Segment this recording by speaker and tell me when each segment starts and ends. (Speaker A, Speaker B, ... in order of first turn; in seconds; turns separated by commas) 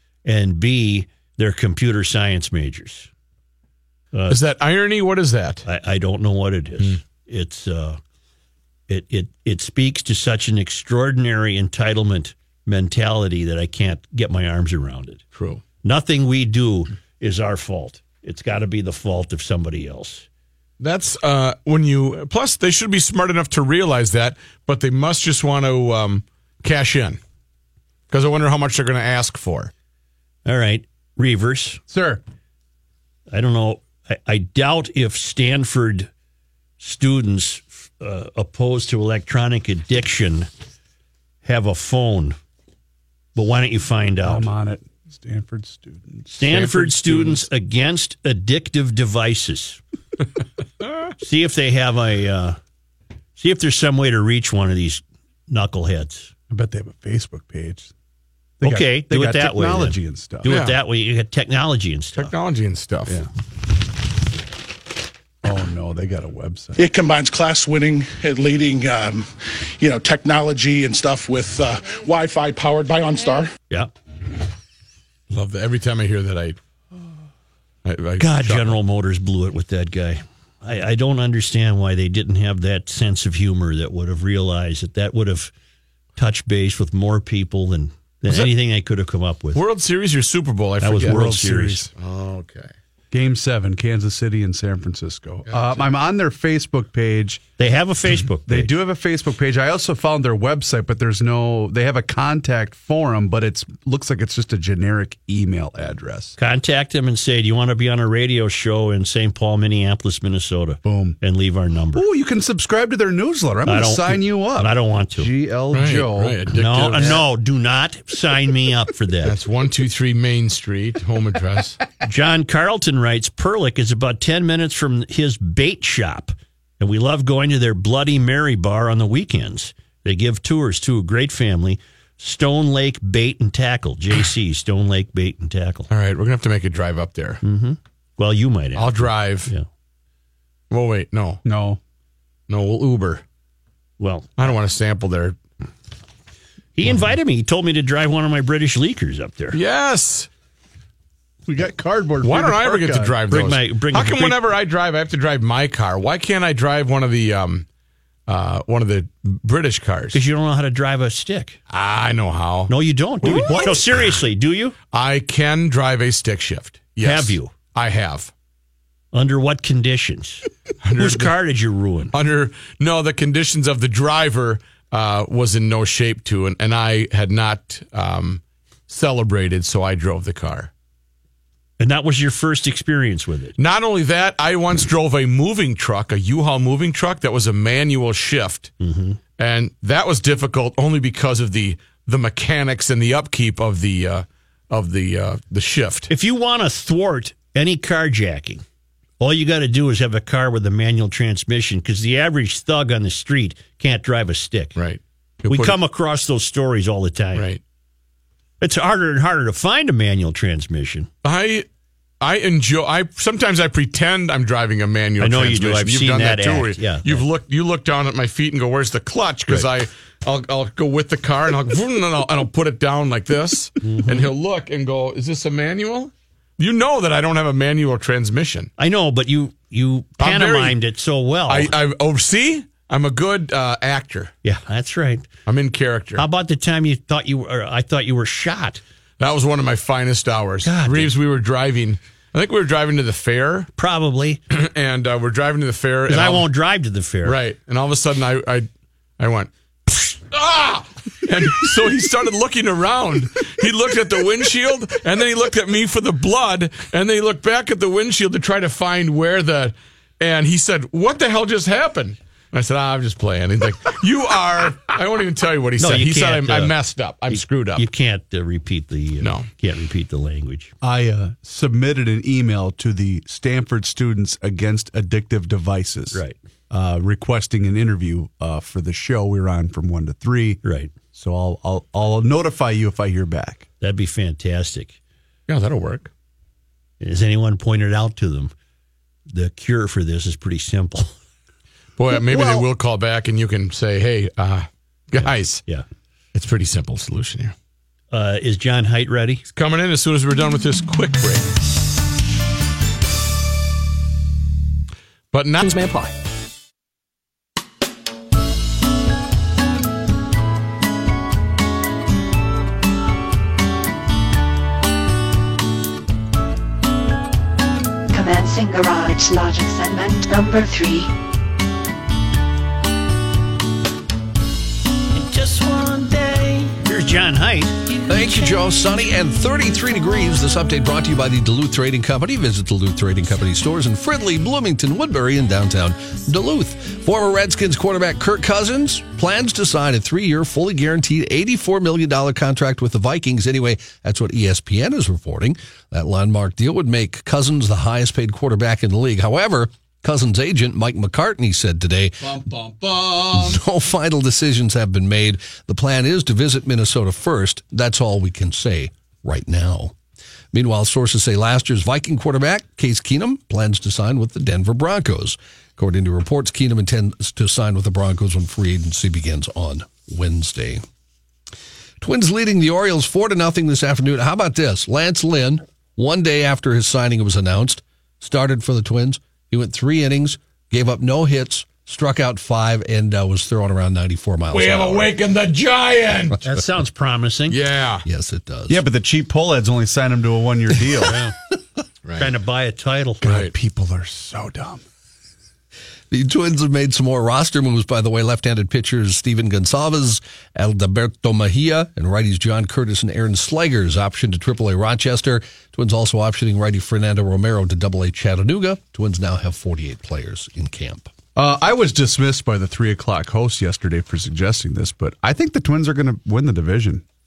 Speaker A: 0.2-3.1, Speaker A: 4.1-4.4, Speaker B: 4.3-5.6, Speaker A: 5.7-8.0, Speaker A: 8.9-15.2, Speaker B: 15.3-15.6, Speaker A: 15.8-20.2, Speaker B: 20.8-27.2, Speaker B: 28.1-29.7, Speaker A: 30.4-31.8, Speaker C: 31.9-32.2, Speaker A: 33.3-36.1, Speaker A: 36.8-40.5, Speaker A: 41.4-42.4, Speaker A: 43.3-44.5, Speaker C: 44.2-46.4, Speaker A: 46.3-49.8, Speaker B: 46.5-47.4, Speaker A: 51.2-52.6, Speaker A: 53.4-56.3, Speaker C: 56.5-57.9, Speaker C: 58.6-60.5, Speaker A: 58.6-62.3, Speaker B: 60.5-60.8, Speaker B: 62.2-63.2, Speaker C: 65.4-66.8, Speaker D: 66.8-73.5, Speaker B: 75.3-76.6, Speaker B: 77.8-78.8, Speaker A: 78.2-85.5, Speaker A: 86.2-89.6, Speaker B: 89.5-91.2, Speaker A: 90.8-91.8, Speaker C: 91.0-91.9, Speaker B: 92.0-92.7, Speaker C: 93.1-97.4, Speaker B: 95.6-95.8, Speaker A: 97.6-98.7, Speaker C: 98.5-106.3, Speaker A: 106.4-112.0, Speaker C: 110.8-111.2, Speaker C: 111.9-117.2, Speaker A: 113.6-115.3, Speaker B: 115.7-117.2, Speaker A: 116.5-119.3, Speaker B: 119.2-121.8, Speaker A: 122.0-135.9, Speaker B: 135.9-137.4, Speaker A: 137.4-139.7, Speaker B: 138.8-139.5, Speaker B: 140.7-141.4, Speaker C: 141.4-141.8, Speaker B: 142.5-143.2, Speaker A: 144.0-144.3, Speaker B: 144.4-145.4, Speaker A: 146.7-149.6, Speaker B: 149.5-150.3, Speaker C: 151.5-153.2, Speaker B: 152.2-157.7, Speaker A: 153.3-154.4, Speaker B: 158.3-160.2, Speaker A: 160.1-161.6, Speaker B: 161.7-162.7, Speaker A: 162.7-164.7, Speaker B: 163.2-164.0, Speaker B: 164.9-168.3, Speaker A: 167.0-167.5, Speaker A: 169.1-172.1, Speaker B: 170.8-171.3, Speaker B: 172.1-180.7, Speaker A: 181.8-183.6, Speaker B: 183.6-188.7, Speaker A: 188.8-189.2, Speaker B: 189.4-196.1, Speaker A: 196.1-198.6, Speaker A: 199.2-204.8, Speaker B: 204.8-205.8, Speaker A: 205.5-207.5, Speaker A: 208.6-211.1, Speaker B: 211.2-211.7, Speaker B: 212.2-228.7, Speaker A: 215.2-217.2, Speaker A: 223.8-224.3, Speaker A: 228.8-231.7, Speaker B: 230.2-230.8, Speaker B: 231.5-234.3, Speaker A: 234.4-235.3, Speaker B: 235.5-236.2, Speaker A: 236.2-238.8, Speaker B: 239.2-243.7, Speaker A: 240.6-241.1, Speaker A: 243.8-244.4, Speaker B: 244.5-246.5, Speaker A: 246.1-247.4, Speaker B: 247.2-248.7, Speaker B: 249.2-267.9, Speaker A: 265.8-266.7, Speaker A: 267.3-270.7, Speaker B: 269.2-269.5, Speaker C: 270.8-280.6, Speaker A: 280.6-280.9, Speaker C: 281.1-283.6, Speaker A: 283.8-285.0, Speaker B: 285.5-286.1, Speaker A: 287.0-288.5, Speaker A: 289.3-291.1, Speaker B: 292.0-295.6, Speaker C: 292.1-292.6, Speaker A: 295.2-295.9, Speaker B: 296.3-297.5, Speaker A: 298.1-299.4, Speaker B: 299.5-301.4, Speaker B: 305.3-306.1, Speaker E: 318.1-321.1, Speaker A: 325.1-327.9, Speaker F: 328.1-352.4, Speaker E: 328.1-328.4, Speaker F: 353.3-359.9, Speaker F: 360.5-370.8, Speaker F: 372.0-385.1, Speaker B: 384.5-386.4, Speaker A: 386.4-387.6, Speaker B: 387.5-388.1, Speaker F: 388.0-388.8, Speaker C: 388.7-391.2, Speaker A: 391.0-391.3, Speaker B: 392.0-392.3, Speaker A: 392.2-393.2, Speaker C: 393.2-394.8, Speaker B: 393.2-393.5, Speaker F: 396.1-411.1, Speaker C: 411.4-417.0